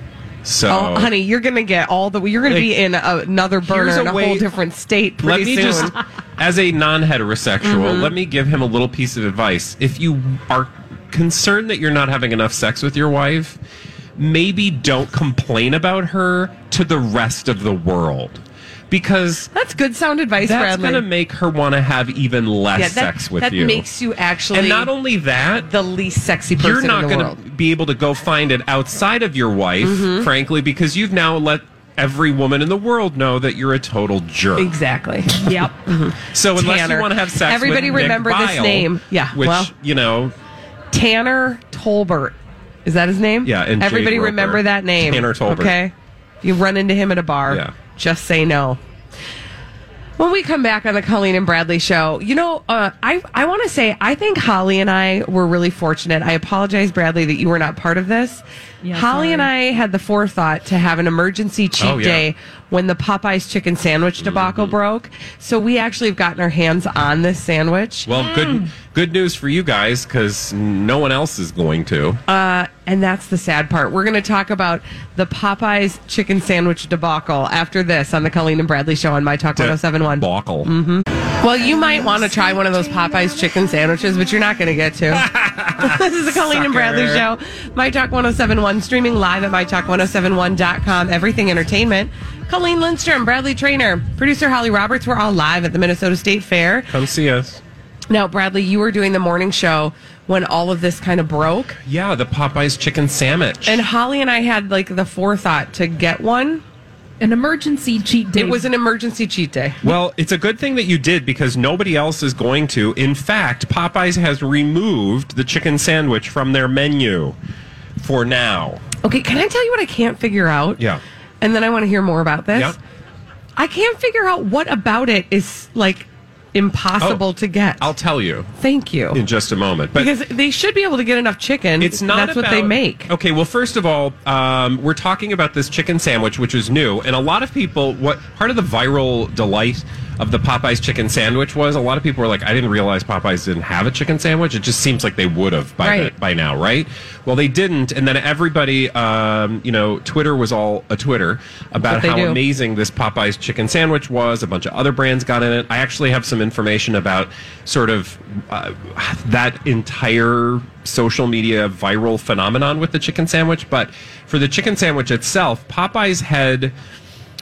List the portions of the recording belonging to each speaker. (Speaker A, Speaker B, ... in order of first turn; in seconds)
Speaker A: 0.4-1.1, 3.6-4.5, 5.2-13.6, 14.2-19.5, 20.4-23.8, 24.5-25.7, 26.6-34.7, 36.3-40.3, 43.4-45.8, 61.8-62.2, 64.2-64.7, 68.1-72.2, 79.6-80.7, 85.1-87.2, 96.9-97.6, 101.8-103.8, 109.8-117.3, 118.0-118.8, 127.8-128.5, 129.1-130.1, 131.8-166.7
Speaker B: 0.7-5.9, 7.6-8.1, 19.5-21.0, 22.8-24.9, 25.7-27.4, 29.8-30.3, 34.6-39.7, 40.9-48.8, 50.2-68.1, 72.3-96.9, 98.1-101.8, 103.6-106.6, 108.3-109.8, 119.0-120.8, 121.4-122.8, 123.6-127.8, 128.6-129.2, 129.9-133.1, 145.8-146.1, 151.8-152.4
Speaker C: 35.4-35.7, 58.8-59.5, 68.2-68.6, 107.2-108.7